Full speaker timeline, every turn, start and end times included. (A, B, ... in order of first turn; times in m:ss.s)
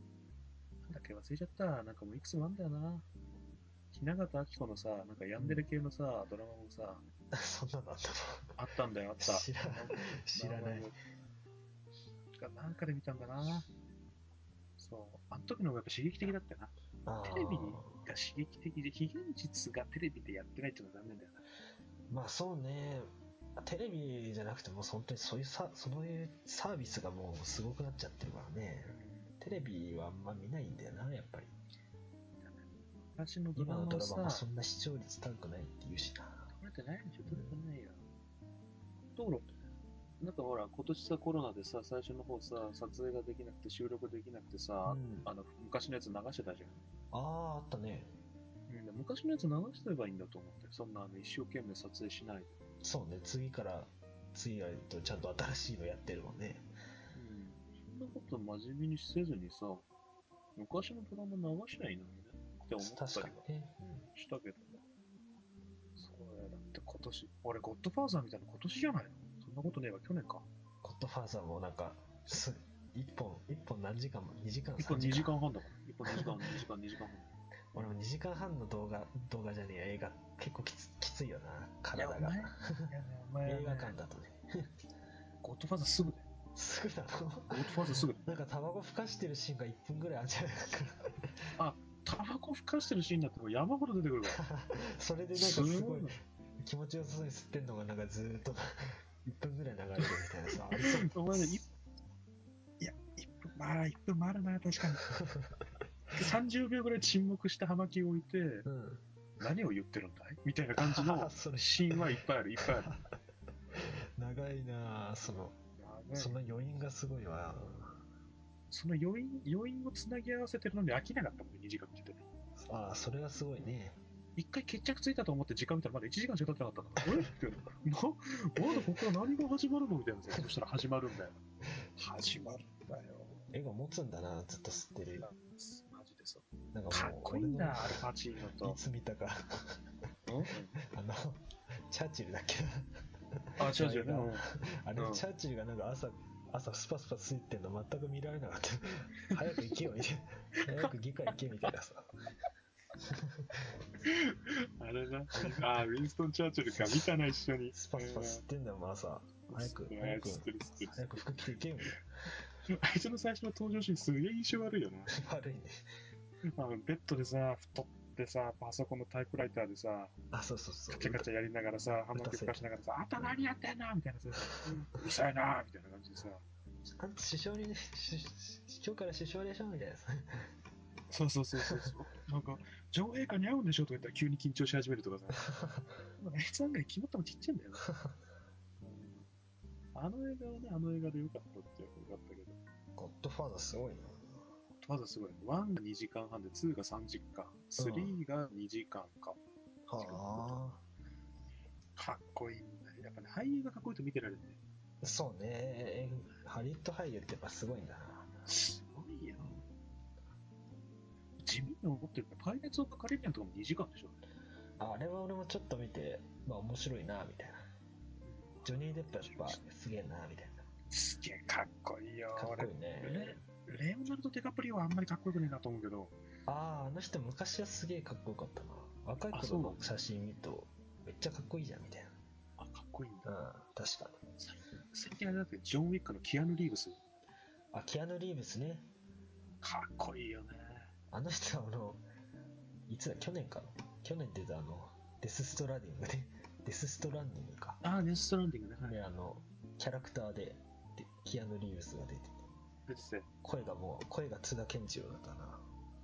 0:00.8-0:03.1 A
0:03.9-0:07.0 A
0:05.4-0:05.6 B
0:07.3-0:08.5 B
0:08.6-0:11.0 A
0:09.2-0:10.9 B
0:12.4-0:13.7 A
0:14.8-0:21.4 A
0:17.0-0:18.0 B
0:22.1-0:31.5 B
0:28.8-0:29.3 A
0:32.4-0:34.4 A
0:33.5-0:36.5 B
0:36.5-0:38.0 A
0:37.2-0:37.6 B
0:39.2-0:39.5 A
0:40.2-0:46.8 A
0:44.8-0:45.3 B
0:47.1-0:48.1 B
0:48.7-0:52.5 A
0:52.8-0:56.7 B
0:57.1-0:59.9 A
1:00.6-1:03.4 A
1:02.8-1:04.1 B
1:04.1-1:04.8 A
1:06.0-1:10.4 A
1:10.8-1:15.3 B
1:14.8-1:17.3 A
1:17.7-1:22.9 B
1:21.9-1:23.9 A
1:23.4-1:24.7 B
1:25.4-1:26.3 A
1:26.5-1:31.5 B
1:27.5-1:28.2 A
1:31.6-1:34.4 A
1:34.3-1:41.6 B
1:35.3-1:36.2 A
1:40.7-1:41.6 A
1:42.8-1:45.1 A
1:45.1-1:45.6 B
1:46.1-1:48.6 A
1:48.6-1:49.0 B
1:49.4-1:52.9 A
1:50.8-1:53.0 B
1:53.7-1:55.6 B
1:55.8-1:56.4 A
1:56.1-1:58.0 B
1:58.7-2:02.2 A
2:02.6-2:04.0 B
2:04.4-2:11.4 A
2:07.0-2:07.3 B
2:12.0-2:13.4 A
2:13.5-2:15.3 B
2:15.2-2:18.8 A
2:16.7-2:18.0 B
2:18.6-2:19.8 B
2:20.3-2:20.8 A
2:20.8-2:32.1 B
2:23.6-2:24.4 A
2:25.0-2:25.2 A
2:30.6-2:30.9 A
2:33.0-2:33.7 B
2:34.0-2:38.4 A
2:35.4-2:35.7 B
2:36.7-2:37.1 B
2:37.7-2:42.0 B
2:39.5-2:41.1 A
2:42.7-2:45.1 A
2:45.1-2:45.8 B
2:46.4-2:50.1 A
2:50.3-2:51.3 B
2:50.9-2:56.4 A
2:52.1-2:52.6 B
2:54.4-2:54.8 B
2:56.8-3:00.5 B
3:01.1-3:05.5 A
3:05.4-3:05.9 B
3:06.2-3:07.9 A
3:07.8-3:08.2 B
3:08.8-3:09.3 A
3:09.9-3:12.6 A
3:13.0-3:14.5 B
3:14.8-3:19.4 A
3:17.8-3:18.2 B
3:19.9-3:20.8 B
3:20.0-3:20.6 A
3:22.0-3:24.6 A
3:25.0-3:28.3 B
3:28.5-3:29.6 A
3:31.4-3:34.2 A
3:34.8-3:37.6 B
3:38.2-3:39.6 A
3:38.6-3:40.6 B
3:40.9-3:46.1 A
3:42.3-3:43.4 B
3:46.4-3:52.1 B
3:49.3-3:49.8 A
3:52.6-3:53.3 A
3:53.2-3:54.2 B
3:54.4-3:57.0 A
3:57.7-3:58.9 B
3:59.6-4:00.9 A
4:01.1-4:02.0 B
4:02.9-4:07.8 B
4:07.8-4:09.0 A
4:08.8-4:12.4 B
4:12.9-4:13.3 A
4:13.4-4:15.6 B